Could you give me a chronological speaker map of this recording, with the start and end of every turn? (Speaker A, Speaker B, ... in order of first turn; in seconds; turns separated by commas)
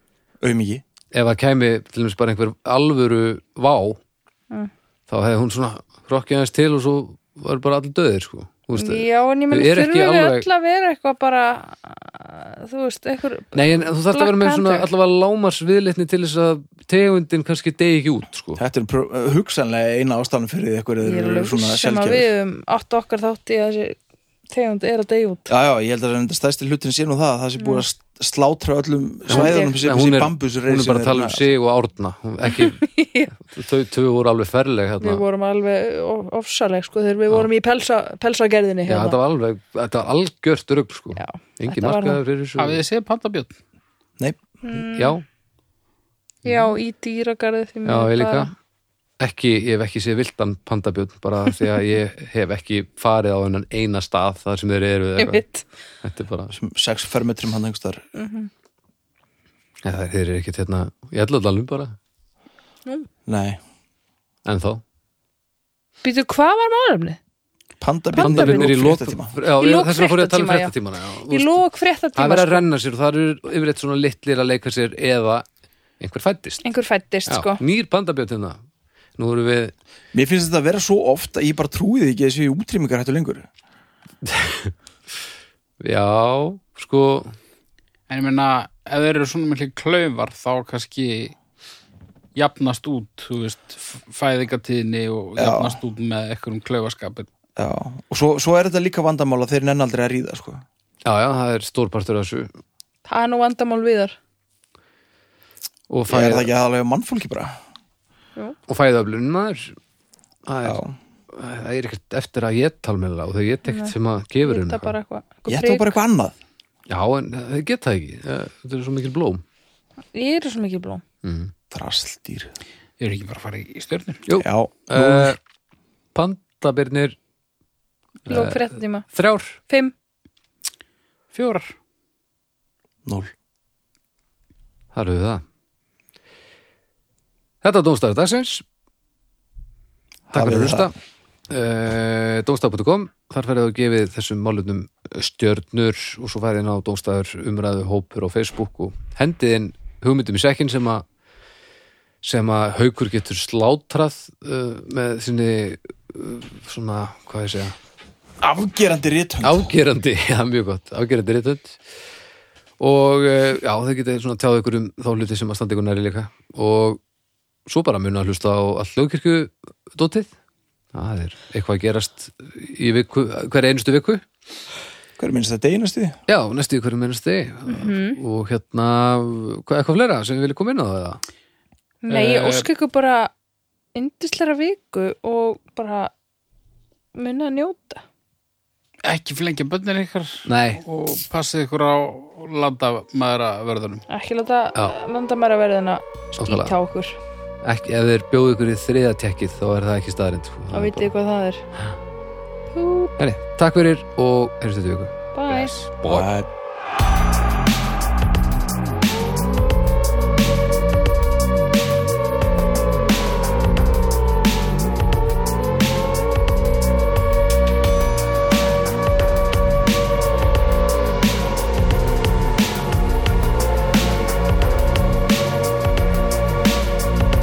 Speaker A: 0.4-0.8, Speaker B: 1.1-4.0, Speaker B: 5.1-10.5, Speaker C: 8.8-14.9, Speaker B: 13.5-18.6, Speaker A: 18.6-22.3, Speaker C: 21.0-24.0, Speaker C: 24.5-25.5, Speaker A: 25.5-31.5, Speaker B: 29.3-35.2, Speaker C: 29.3-29.8, Speaker C: 32.5-33.3, Speaker C: 35.0-39.2, Speaker B: 38.9-42.8, Speaker C: 41.1-42.2, Speaker D: 42.6-43.6, Speaker C: 44.6-45.2, Speaker B: 44.8-45.2, Speaker C: 46.5-48.5, Speaker B: 47.9-48.5, Speaker B: 49.2-55.4, Speaker C: 55.2-55.6, Speaker B: 56.0-56.6, Speaker A: 56.5-58.0, Speaker C: 58.1-58.5, Speaker B: 59.8-62.0, Speaker A: 63.3-63.6, Speaker B: 64.5-64.8, Speaker C: 66.0-67.2, Speaker A: 67.8-69.3, Speaker C: 68.1-68.8, Speaker B: 68.2-71.6, Speaker C: 69.6-70.7, Speaker C: 71.3-72.7, Speaker B: 72.2-75.5, Speaker B: 76.0-76.6, Speaker C: 76.6-77.6, Speaker B: 77.3-78.6, Speaker B: 79.2-79.7, Speaker A: 80.1-83.5, Speaker B: 84.2-84.7, Speaker B: 85.8-87.3, Speaker D: 88.1-91.3, Speaker D: 92.4-97.3, Speaker A: 95.4-95.8, Speaker A: 97.6-100.6, Speaker B: 101.0-102.5, Speaker C: 103.1-104.2, Speaker B: 105.9-106.5, Speaker A: 106.1-107.6, Speaker B: 108.7-109.8, Speaker B: 110.5-114.9, Speaker A: 110.6-111.0, Speaker C: 113.7-116.0, Speaker A: 115.5-116.4, Speaker B: 116.9-119.4, Speaker C: 120.1-121.0, Speaker B: 121.2-121.5, Speaker A: 121.7-122.5, Speaker D: 123.0-124.2, Speaker B: 124.3-125.4, Speaker A: 124.3-125.3, Speaker B: 126.1-127.2, Speaker C: 128.3-129.1, Speaker B: 128.3-129.6, Speaker D: 131.3-131.7, Speaker A: 133.1-133.3, Speaker B: 134.9-135.4, Speaker B: 137.6-138.6, Speaker A: 140.3-140.9, Speaker B: 140.3-140.9, Speaker B: 141.5-151.0, Speaker B: 152.2-157.8, Speaker A: 158.4-159.7, Speaker B: 159.4-161.8, Speaker B: 162.8-167.0, Speaker B: 167.7-170.3, Speaker B: 170.9-174.2, Speaker A: 175.2-176.2, Speaker B: 176.3-181.2, Speaker C: 177.7-178.2, Speaker C: 182.0-183.3, Speaker B: 182.2-182.5, Speaker D: 182.2-182.6, Speaker C: 183.9-186.1, Speaker C: 187.2-188.0, Speaker D: 189.1-194.1, Speaker B: 190.5-190.8, Speaker C: 194.1-197.2, Speaker B: 196.4-196.8, Speaker B: 197.6-201.1, Speaker C: 200.7-201.6, Speaker C: 202.7-203.2, Speaker B: 203.2-205.2, Speaker C: 205.3-205.8, Speaker D: 205.5-205.8, Speaker B: 206.0-206.3, Speaker A: 206.1-206.5